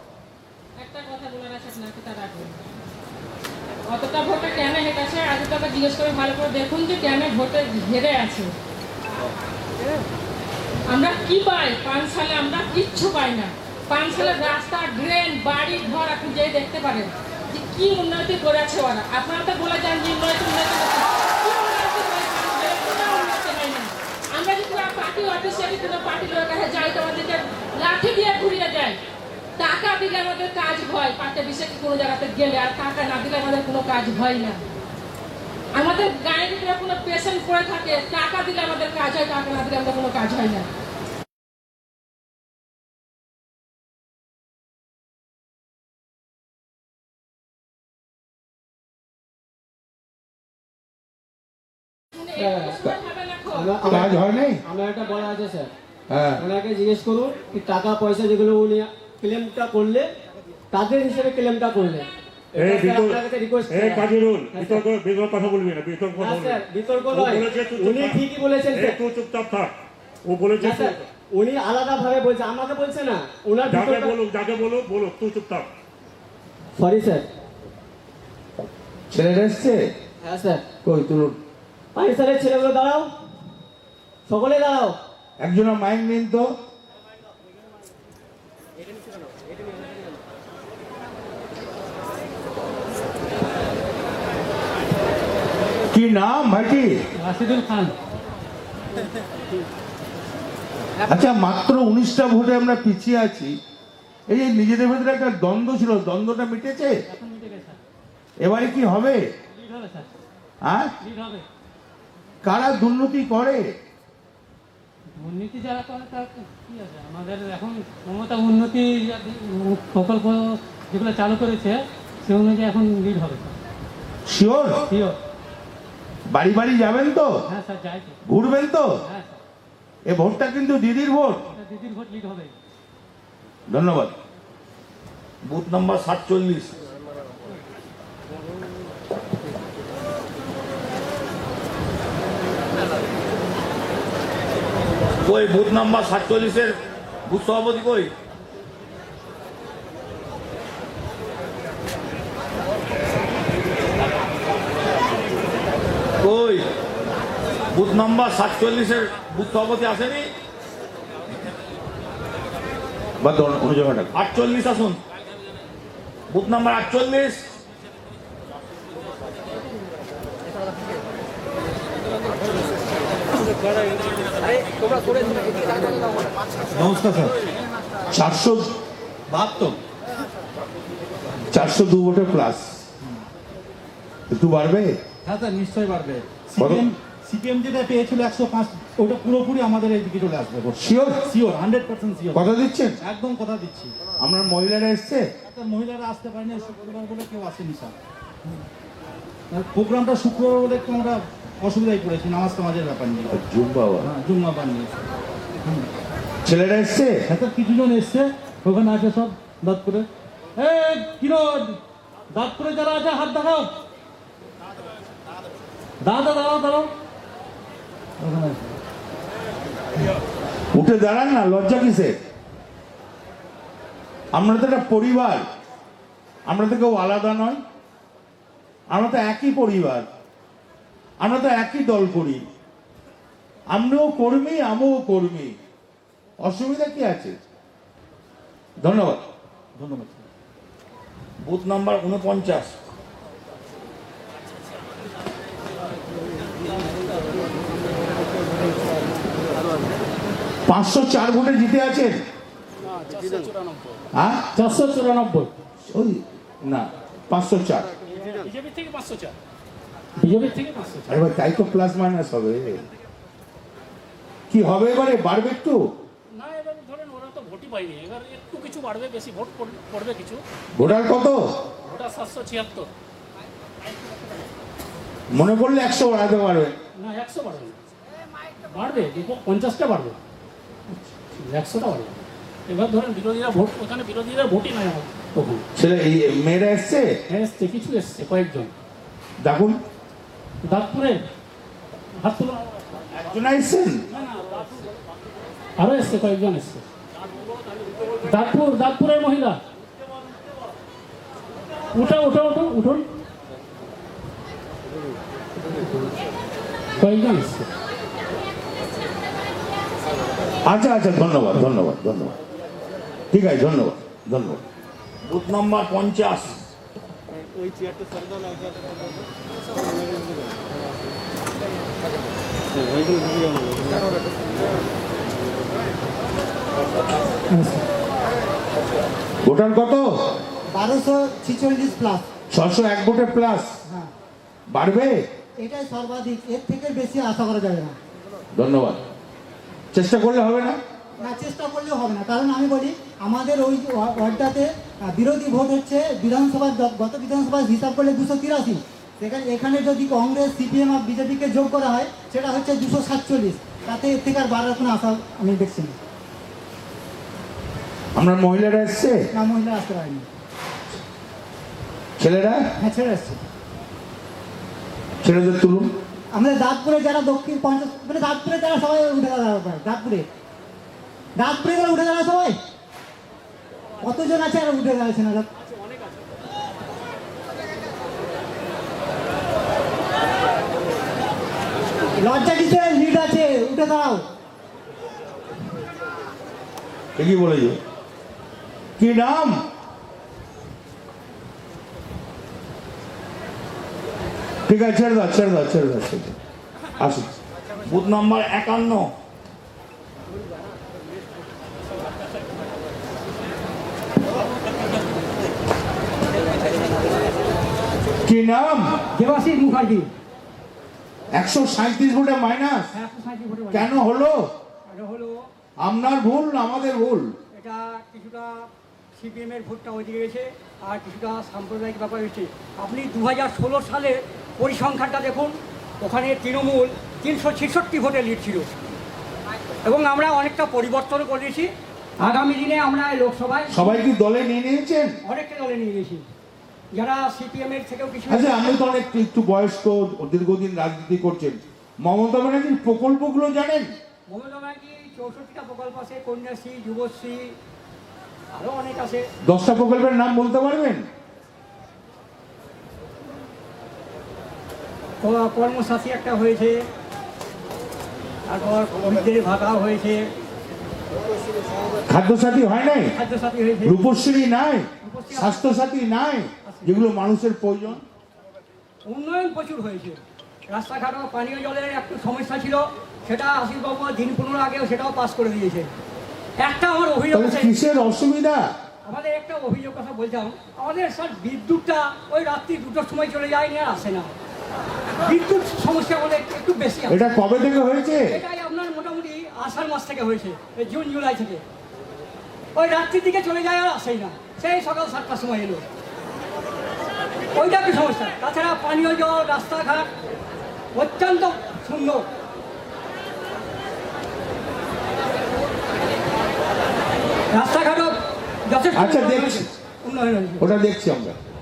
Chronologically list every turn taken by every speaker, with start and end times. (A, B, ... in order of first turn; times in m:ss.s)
0:00.8-0:02.6 A
0:03.9-0:08.5 A
0:10.9-0:29.0 A
0:29.6-0:34.6 A
0:35.8-0:40.7 A
0:52.2-0:54.0 A
0:52.4-0:52.8 B
0:53.5-0:55.7 B
0:53.8-0:54.6 C
0:56.1-0:56.4 C
0:56.4-1:00.1 B
1:00.7-1:04.8 B
1:02.6-1:08.2 D
1:06.2-1:09.0 B
1:08.7-1:09.7 D
1:10.3-1:11.1 D
1:10.6-1:14.2 B
1:13.7-1:15.7 D
1:16.8-1:17.2 B
1:19.1-1:19.8 C
1:20.2-1:20.6 B
1:20.8-1:21.4 C
1:22.0-1:23.1 B
1:24.3-1:25.0 B
1:25.4-1:26.5 C
1:35.9-1:36.9 C
1:37.2-1:37.9 E
1:41.1-1:43.6 C
1:44.3-1:47.0 C
1:47.1-1:47.8 E
1:48.4-1:49.2 C
1:49.6-1:50.1 E
1:50.6-1:50.9 C
1:51.0-1:51.4 E
1:52.4-1:53.7 C
1:55.3-2:00.4 E
1:56.6-1:57.0 F
1:58.2-1:58.7 F
2:00.9-2:03.5 E
2:04.3-2:04.8 C
2:06.3-2:07.3 C
2:07.5-2:08.1 E
2:08.2-2:08.9 C
2:09.1-2:09.3 E
2:10.1-2:11.4 C
2:11.6-2:12.5 E
2:13.7-2:14.2 C
2:15.4-2:16.8 G
2:25.2-2:28.1 G
2:36.2-2:36.7 G
2:37.7-2:40.3 G
2:43.2-2:44.1 C
2:44.1-2:45.0 G
2:46.3-2:47.4 G
2:56.7-2:57.3 H
2:58.1-2:58.7 C
2:59.3-2:59.8 H
3:01.5-3:02.8 C
3:04.3-3:05.0 C
3:05.2-3:12.5 H
3:06.6-3:06.9 C
3:10.8-3:11.3 C
3:12.3-3:13.0 C
3:13.0-3:14.0 H
3:14.2-3:15.3 C
3:15.4-3:17.9 H
3:19.5-3:23.3 H
3:23.3-3:24.1 C
3:24.0-3:24.9 H
3:26.4-3:27.2 C
3:27.3-3:31.8 H
3:32.3-3:33.7 H
3:36.0-3:36.9 H
3:38.2-3:38.8 H
3:40.7-3:42.2 C
3:44.4-3:45.4 C
3:46.5-3:47.6 C
3:48.9-3:50.1 C
3:51.2-3:52.4 C
3:53.7-3:55.6 C
3:56.4-3:57.4 C
3:58.8-3:59.2 C
3:59.8-4:00.3 H
4:01.4-4:02.8 G
4:10.7-4:12.2 C
4:12.9-4:14.0 F
4:14.2-4:14.4 C
4:14.6-4:15.5 F
4:15.9-4:17.9 C
4:18.2-4:19.4 F
4:20.2-4:21.2 F
4:21.1-4:22.8 C
4:24.5-4:25.8 C
4:26.4-4:30.4 F
4:30.8-4:31.4 C
4:31.8-4:32.9 F
4:35.3-4:36.8 C
4:37.0-4:37.8 F
4:38.7-4:40.2 F
4:41.4-4:45.6 F
4:45.8-4:47.1 C
4:47.3-4:48.7 F
4:49.4-4:49.8 C
4:50.7-4:51.2 F
4:52.2-4:52.6 F
4:53.2-4:54.0 C
4:54.2-4:54.6 F
4:55.8-4:56.8 F
4:58.2-4:59.6 F
5:01.9-5:03.0 F
5:07.0-5:07.7 F
5:10.7-5:12.4 C
5:13.3-5:14.6 C
5:15.3-5:16.6 G
5:27.5-5:27.8 I
5:29.4-5:30.1 C
5:30.7-5:32.3 I
5:32.5-5:33.7 C
5:34.7-5:35.2 C
5:35.6-5:38.0 I
5:38.5-5:39.0 C
5:39.9-5:40.8 C
5:41.2-5:56.0 I
5:58.2-5:59.2 C
5:59.3-6:00.3 I
6:02.2-6:02.7 C
6:02.8-6:03.4 I
6:05.2-6:05.9 C
6:06.3-6:10.3 I
6:11.4-6:12.6 I
6:14.0-6:15.5 I
6:22.2-6:24.2 I
6:27.2-6:27.8 C
6:29.0-6:29.6 C
6:34.7-6:36.3 C
6:37.0-6:37.3 C
6:37.9-6:39.1 G
6:48.2-6:49.0 C
6:49.1-6:50.1 E
6:51.3-6:52.9 C
6:52.9-6:53.9 E
6:53.7-6:54.5 C
6:54.9-6:55.5 E
6:55.8-6:57.4 C
6:57.5-7:08.7 E
7:09.8-7:14.0 E
7:13.7-7:15.1 C
7:15.2-7:16.3 E
7:16.9-7:18.6 E
7:18.3-7:23.9 C
7:24.3-7:27.6 E
7:28.6-7:29.3 E
7:29.4-7:31.1 C
7:35.2-7:36.8 E
7:38.5-7:40.3 E
7:42.1-7:43.1 C
7:43.2-7:44.0 E
7:43.8-7:48.0 C
7:45.0-7:45.7 E
7:46.6-7:47.0 E
7:49.1-7:55.9 E
7:56.6-7:57.8 E
7:57.3-7:58.7 C
7:59.1-8:04.3 E
8:05.2-8:07.2 E
8:07.1-8:08.4 C
8:08.3-8:11.6 E
8:12.8-8:15.8 E
8:17.5-8:20.1 E
8:21.0-8:22.2 E
8:27.5-8:28.2 E
8:28.7-8:30.7 E
8:28.9-8:29.8 C
8:30.6-8:31.4 C